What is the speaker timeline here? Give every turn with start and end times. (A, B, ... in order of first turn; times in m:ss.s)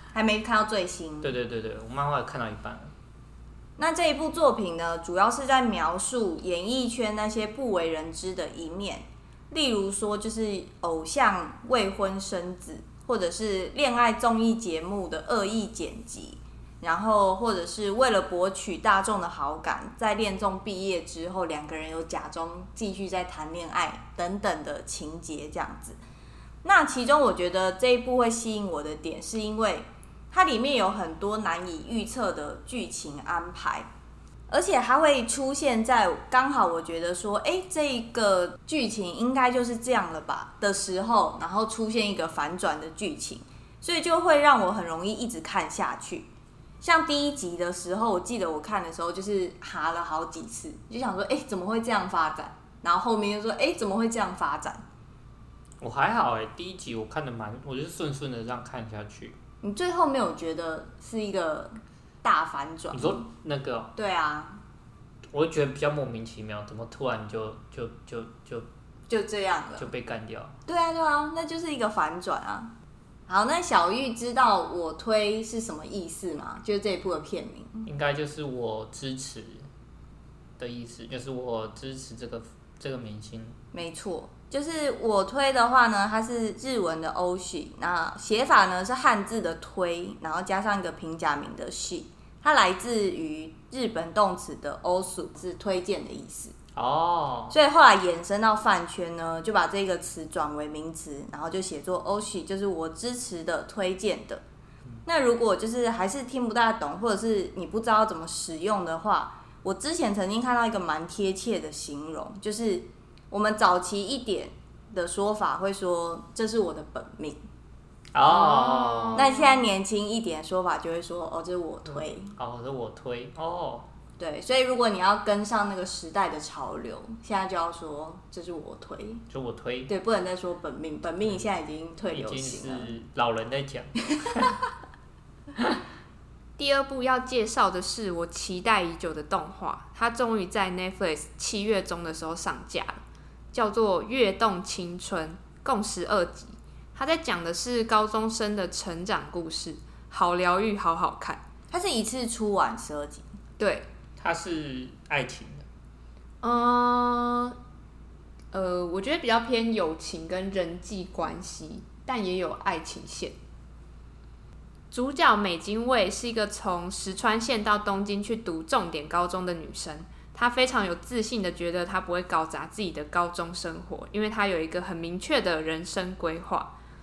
0:00.1-0:01.4 A
0:01.2-0:02.9 B
0:03.8-0:26.0 A
0:26.6-0:33.9 A
0:34.5-0:46.3 A
0:46.8-0:54.8 A
0:55.8-0:59.4 B
0:59.6-1:03.2 A
1:02.9-1:03.9 B
1:04.0-1:04.6 A
1:05.3-1:08.7 B
1:09.1-1:09.9 A
1:09.8-1:10.5 B
1:10.7-1:12.7 A
1:13.3-1:17.9 A
1:17.9-1:19.7 B
1:20.6-1:23.6 B
1:23.7-1:36.6 A
1:36.8-1:37.6 B
1:37.5-1:44.4 A
1:45.0-1:57.4 A
1:58.1-1:59.3 B
1:58.2-1:59.6 C
1:59.2-2:02.4 A
2:02.0-2:03.9 B
2:04.2-2:09.2 A
2:09.3-2:09.9 B
2:09.9-2:12.9 A
2:12.1-2:14.6 B
2:16.6-2:23.0 C
2:23.5-2:31.4 C
2:31.7-2:33.3 A
2:33.6-2:33.9 C
2:34.2-2:35.6 B
2:36.4-2:37.6 C
2:38.5-2:43.4 C
2:44.9-2:56.7 C